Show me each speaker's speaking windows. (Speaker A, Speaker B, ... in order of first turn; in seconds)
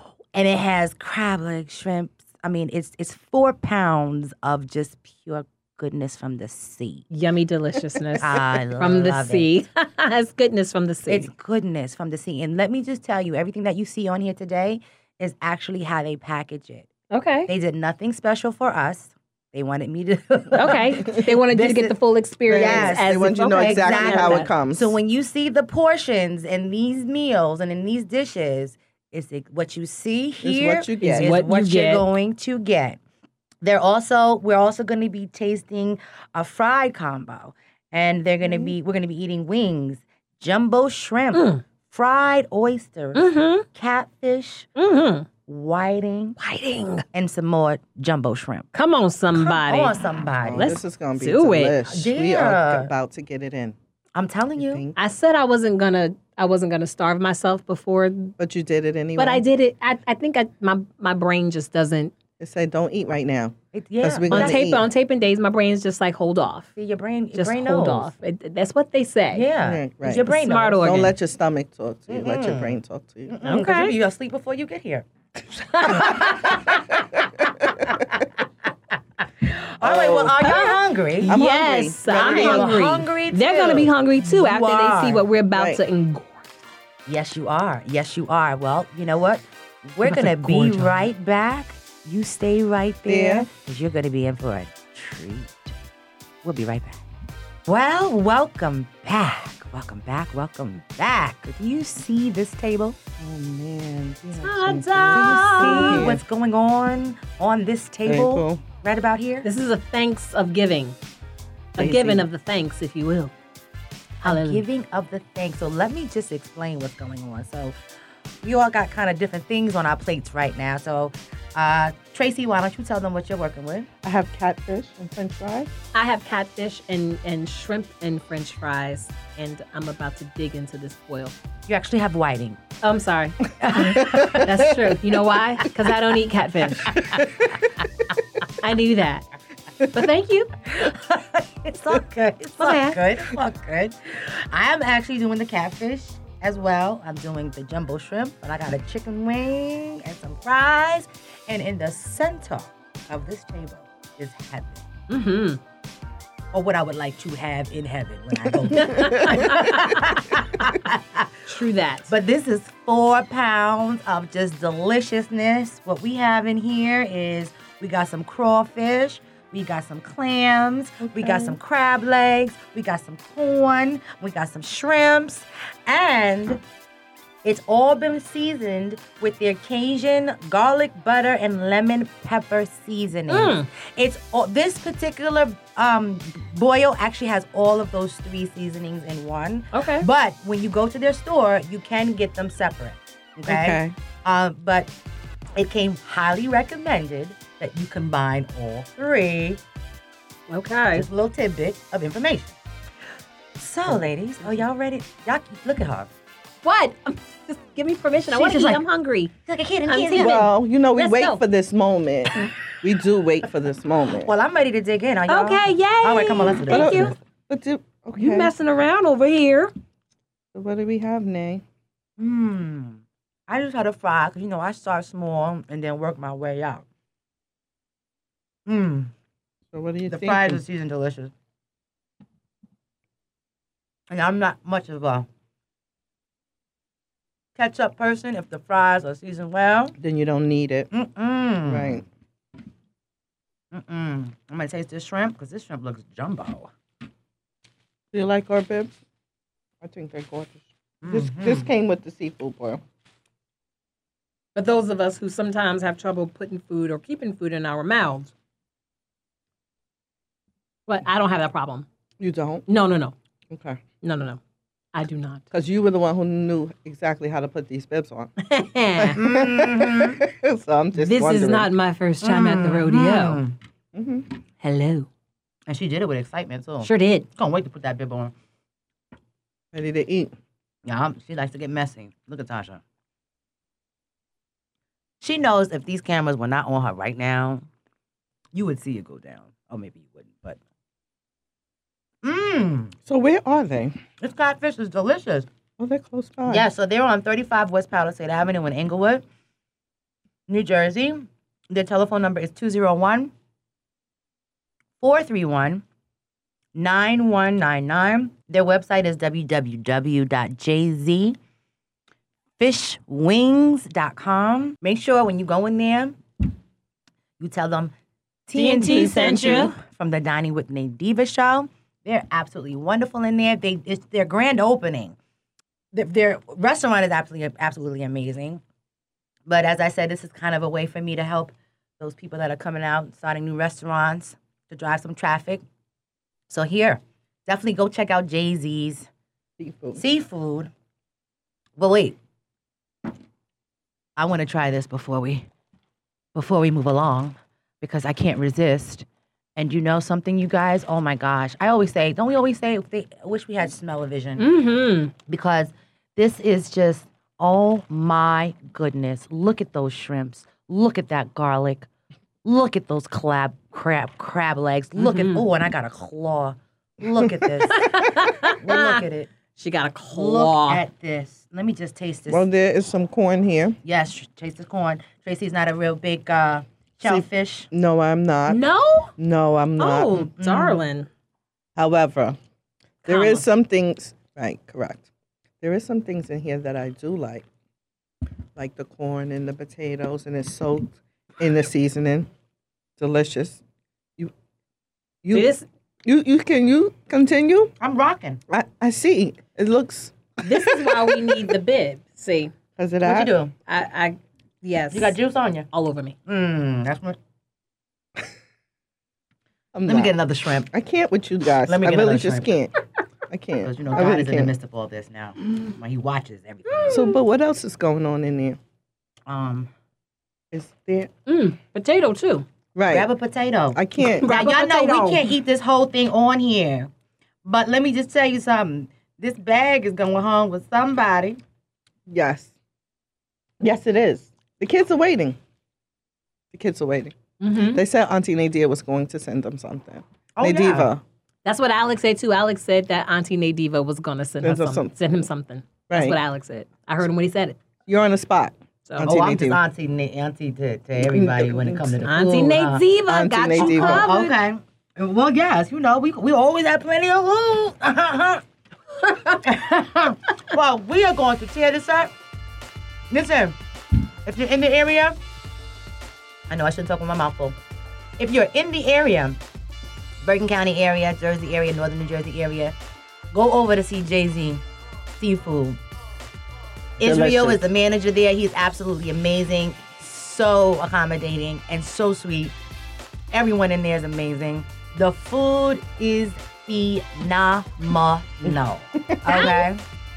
Speaker A: 0.3-7.0, 8.2-9.5, 11.1-16.9, 17.5-21.9, 22.5-33.0, 33.6-44.7, 45.5-46.4, 47.1-48.7, 49.3-50.8, 51.8-52.9, 54.1-54.8, 63.7-64.6, 66.8-68.1, 69.3-71.0, 72.1-75.0, 75.7-78.5, 79.2-81.4, 82.1-85.2, 87.1-95.7, 96.4-97.0, 97.7-103.0, 105.1-109.5, 114.2-117.7, 118.4-123.9, 131.7-132.6, 133.6-134.7, 136.8-137.4, 140.7-154.8, 156.5-161.4, 162.1-176.6, 177.4-194.9, 195.6-199.6, 200.9-202.6, 203.6-206.1, 208.3-208.8, 209.4-210.4, 214.2-217.2, 222.2-226.8, 228.7-229.1, 230.1-231.3, 234.1-235.3, 237.6-239.9, 240.9-242.0, 243.7-246.7, 251.0-251.7, 269.1-270.2, 272.2-273.6, 275.7-278.3, 280.9-282.8, 285.2-287.6, 288.5-290.6, 292.2-292.9, 294.2-295.5, 296.4-299.2, 300.5-303.3, 305.0-305.8, 306.7-311.4, 312.6-316.2, 317.4-317.9, 318.5-325.1, 325.9-328.6, 329.5-335.6, 336.5-339.1, 339.9-340.7, 341.8-342.2, 344.2-345.5, 346.3-349.0, 349.6-354.5, 355.2-361.9, 362.4-369.3, 370.1-372.4, 373.8-377.7, 380.4-380.8, 397.8-398.4, 403.0-403.5, 404.9-405.7, 406.2-407.2, 409.9-410.7, 411.6-412.5, 413.6-417.0, 419.3-419.7, 422.9-426.9, 427.4-431.4, 440.4-440.9, 449.0-452.8, 453.6-458.4, 459.3-462.1, 463.1-463.6, 464.2-465.2, 466.5-467.6, 468.2-469.4, 470.2-472.8, 473.3-474.6, 475.2-475.8, 477.0-482.5, 483.3-489.8
Speaker B: 7.1-11.3, 17.1-17.5, 20.5-24.5, 31.0-32.1, 41.3-41.6, 43.1-43.6, 44.8-45.3, 46.4-47.0, 48.7-50.0, 50.6-51.8, 55.0-58.4, 59.2-62.1, 64.3-66.7, 67.3-69.5, 70.2-71.1, 73.4-74.0, 75.7-76.5, 80.4-86.5, 90.0-91.0, 104.4-106.1, 109.4-111.0, 111.8-113.3, 114.2-114.6, 125.9-131.3, 132.8-137.1, 138.6-139.3, 139.9-140.5, 142.6-143.0, 155.1-155.6, 158.7-160.8, 161.5-162.1, 183.3-183.7, 189.7-190.1, 200.5-201.1, 206.6-209.3, 209.9-211.4, 215.3-217.1, 218.2-219.7, 254.5-258.3, 260.9-261.9, 262.7-263.1, 264.0-264.4, 264.9-265.4, 268.4-269.2, 270.9-273.4, 274.6-275.1, 276.8-277.3, 318.5-319.7, 354.4-355.1, 365.0-365.4, 367.7-369.0, 369.6-370.8, 378.5-379.1, 379.8-381.1, 383.0-383.4, 395.3-395.6, 400.4-402.5, 403.7-405.2, 405.7-406.1, 416.7-417.1, 421.2-422.4, 424.2-425.3, 437.4-437.8, 441.4-447.6, 448.9-449.1, 452.0-454.4, 489.3-489.6
Speaker C: 21.1-21.8, 22.5-24.9, 30.4-31.3, 38.4-38.7, 50.4-53.7, 54.6-55.0, 58.4-59.4, 62.4-64.8, 69.6-73.3, 77.1-78.1, 79.8-80.5, 81.2-82.7, 85.5-85.8, 93.0-93.5, 103.2-106.2, 108.0-108.6, 111.8-112.3, 124.0-125.7, 134.1-134.5, 136.9-137.6, 139.8-140.1, 171.0-171.6, 193.5-193.9, 210.2-214.3, 216.7-218.5, 220.5-221.6, 229.7-230.6, 240.0-240.9, 241.7-242.0, 248.1-248.9, 249.8-252.8, 262.2-262.6, 263.5-263.8, 265.5-268.3, 268.9-271.7, 273.9-274.3, 279.7-280.3, 293.1-294.0, 295.8-296.7, 318.8-319.7, 339.6-340.0, 372.3-373.8, 377.0-378.6, 379.2-380.3, 381.8-382.4, 383.1-385.1, 385.6-387.4, 388.6-392.3, 393.0-393.6, 395.2-395.5, 396.0-397.7, 398.5-401.6, 402.8-403.3, 409.7-410.1, 410.7-412.7, 413.3-414.5, 416.9-418.6, 420.5-421.1, 422.7-423.1, 423.7-424.3, 432.1-432.5, 433.6-435.4, 436.5-441.0, 444.4-444.9, 445.9-446.2, 447.9-449.6, 451.0-452.0, 453.1-454.1, 477.0-477.7, 488.4-489.4